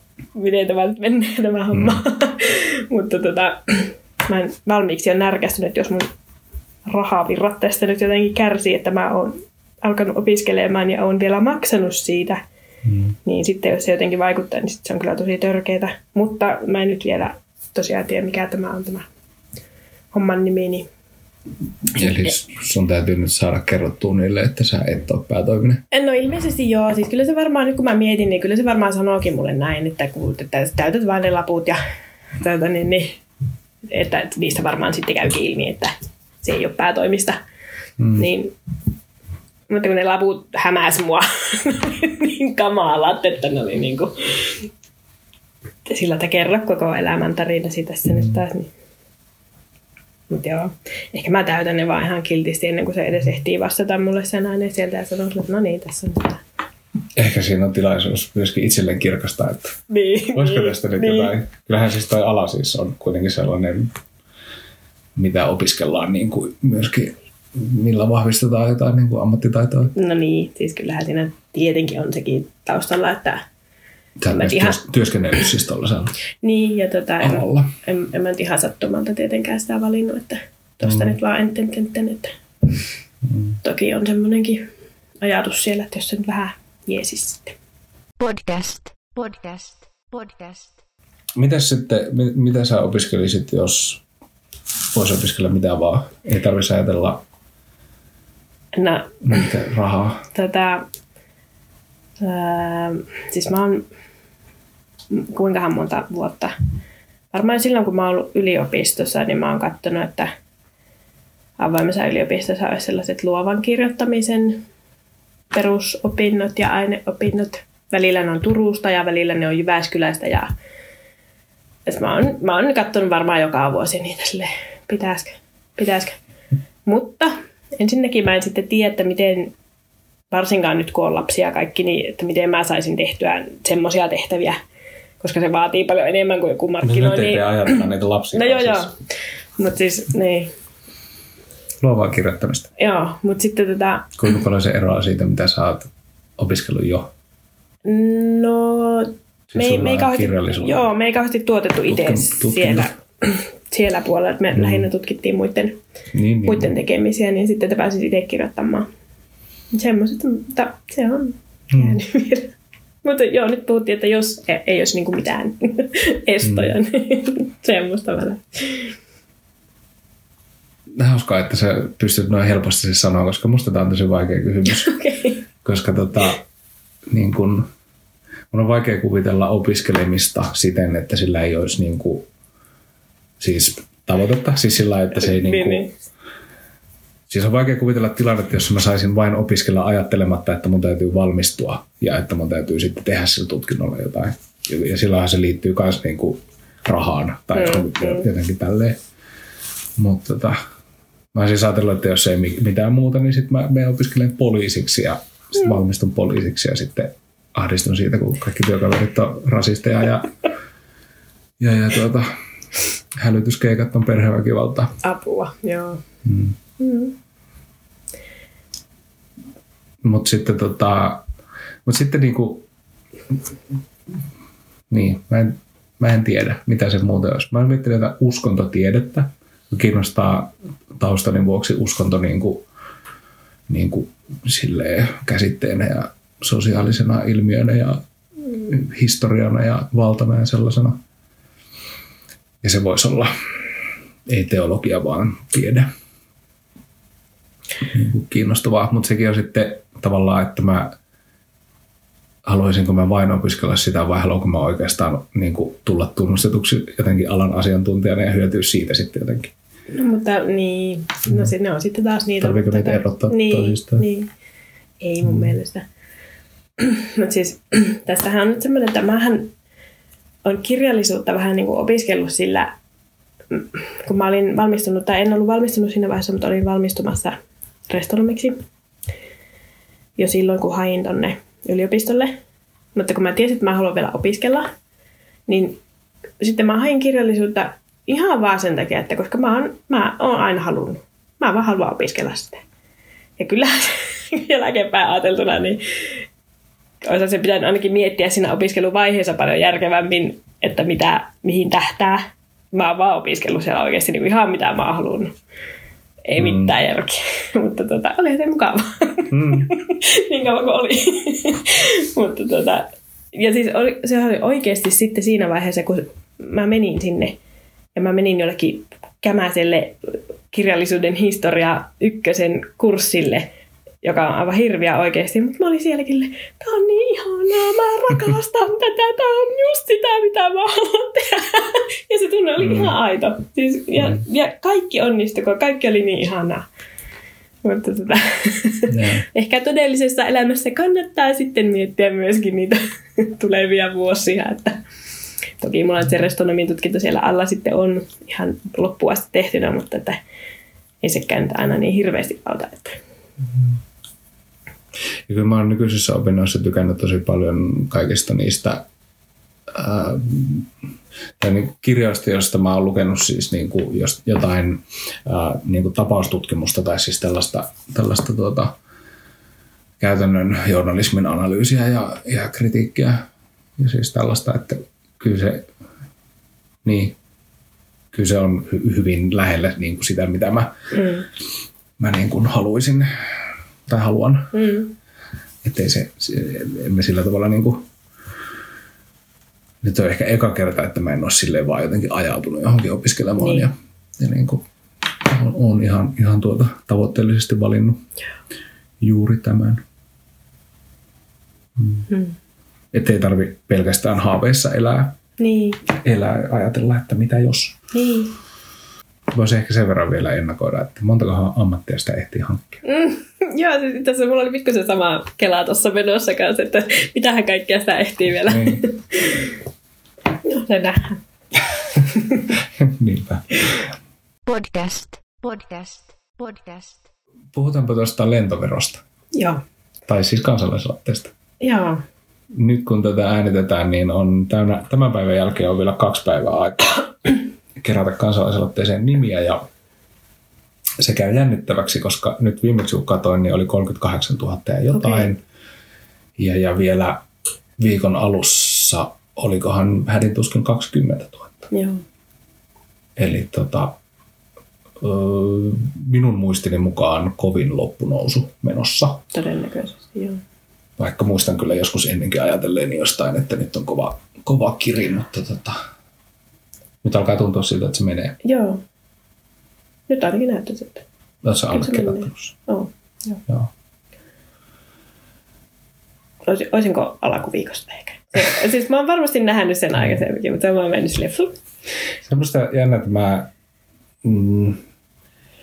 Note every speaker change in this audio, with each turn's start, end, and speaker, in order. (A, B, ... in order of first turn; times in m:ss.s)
0:00.4-0:06.1 A
0:01.7-0:02.0 B
0:06.9-0:12.4 A
0:12.9-0:13.2 B
0:13.2-0:19.1 A
0:20.1-0:20.9 A
0:21.9-0:25.8 B
0:25.9-0:31.8 A
0:32.4-0:33.2 A
0:33.9-0:37.4 A
0:38.0-0:38.3 B
0:38.2-0:38.5 A
0:39.7-0:44.7 A
0:45.9-0:48.7 A
0:50.3-0:56.4 A
0:57.2-0:59.8 B
0:59.9-1:01.3 A
1:00.3-1:03.9 B
1:05.2-1:09.9 B
1:09.9-1:13.4 A
1:14.2-1:16.1 B
1:14.3-1:14.8 A
1:16.4-1:22.3 A
1:17.2-1:17.7 B
1:20.8-1:21.2 B
1:23.2-1:23.6 B
1:23.6-1:24.7 A
1:25.2-1:27.6 A
1:28.2-1:30.8 C
1:31.4-1:34.0 B
1:34.9-1:37.2 B
1:38.8-1:39.5 A
1:39.2-1:40.3 B
1:40.3-1:40.8 A
1:42.2-1:43.9 A
1:45.1-1:46.5 A
1:47.3-1:50.3 A
1:51.6-1:54.6 A
1:55.5-2:00.5 A
2:01.9-2:06.2 A
2:06.9-2:09.5 A
2:10.3-2:14.6 A
2:15.2-2:19.0 A
2:16.8-2:18.9 B
2:19.6-2:20.5 A
2:21.8-2:22.7 B
2:22.8-2:24.2 A
2:24.2-2:27.1 B
2:27.8-2:35.8 A
2:29.5-2:30.9 B
2:31.9-2:32.9 B
2:34.5-2:34.9 B
2:36.1-2:36.7 B
2:36.4-2:38.9 A
2:39.7-2:49.0 A
2:41.7-2:42.0 B
2:46.4-2:46.8 B
2:50.9-2:54.9 B
2:54.7-2:55.4 A
2:55.6-2:56.4 B
2:57.1-2:57.7 B
2:58.5-3:02.3 B
3:03.4-3:05.9 B
3:05.2-3:05.9 A
3:07.3-3:19.0 B
3:17.6-3:18.2 A
3:20.0-3:20.6 B
3:21.3-3:30.3 B
3:31.6-3:32.3 B
3:33.2-3:35.0 B
3:35.0-3:36.0 A
3:36.2-3:36.6 B
3:36.8-3:37.2 A
3:40.0-3:41.3 B
3:41.9-3:42.7 B
3:44.9-3:52.6 B
3:53.7-4:01.0 B
4:02.6-4:03.3 B
4:04.3-4:05.9 B
4:07.8-4:11.0 B
4:12.4-4:19.5 B
4:19.9-4:24.3 A
4:22.4-4:24.0 B
4:25.0-4:25.9 A
4:26.8-4:29.5 A
4:30.4-4:32.8 A
4:33.5-4:38.6 A
4:40.2-4:42.4 A
4:43.0-4:44.7 A
4:45.5-4:45.8 A
4:46.4-4:52.6 A
4:53.4-4:56.2 A
4:57.0-5:05.3 A
5:06.3-5:17.4 A
5:06.4-5:06.7 B
5:09.3-5:09.7 B
5:18.0-5:23.5 A
5:24.0-5:36.7 A
5:32.6-5:33.0 B
5:37.6-5:44.8 A
5:38.9-5:39.2 B
5:45.6-5:50.2 A
5:51.0-5:53.0 A
5:55.3-5:58.8 B
5:59.7-6:00.7 B
6:01.4-6:08.8 B
6:10.0-6:13.2 B
6:13.8-6:15.7 B
6:16.8-6:17.2 B
6:18.1-6:20.7 B
6:20.9-6:21.3 A
6:22.0-6:23.1 B
6:23.9-6:24.6 B
6:24.5-6:24.9 A
6:25.6-6:27.9 B
6:29.8-6:34.6 B
6:33.4-6:33.7 A
6:35.2-6:38.0 B
6:39.0-6:39.8 B
6:41.8-6:42.1 B
6:42.1-6:42.4 A
6:42.9-6:45.2 B
6:45.4-6:45.8 A
6:45.9-6:47.8 B
6:47.9-6:48.3 A
6:49.3-6:52.8 B
6:52.8-6:59.5 A
6:58.4-6:58.8 B
7:00.4-7:01.2 A
7:02.0-7:02.4 A
7:02.6-7:03.9 B
7:04.5-7:07.0 C
7:07.5-7:09.0 B
7:09.3-7:09.6 A
7:10.1-7:11.3 B
7:11.6-7:12.0 A
7:12.5-7:19.7 B
7:21.0-7:25.4 B
7:24.9-7:25.3 A
7:26.4-7:27.2 B
7:27.8-7:31.7 B
7:31.7-7:32.0 A
7:33.2-7:34.0 B
7:35.0-7:39.2 B
7:39.3-7:40.4 A
7:41.0-7:45.8 B
7:47.0-7:48.4 B
7:48.4-7:48.8 A
7:50.1-7:51.0 A
7:51.4-7:52.5 B
7:51.7-7:53.4 A
7:56.5-8:01.5 A
8:02.2-8:03.5 B
8:04.2-8:04.8 B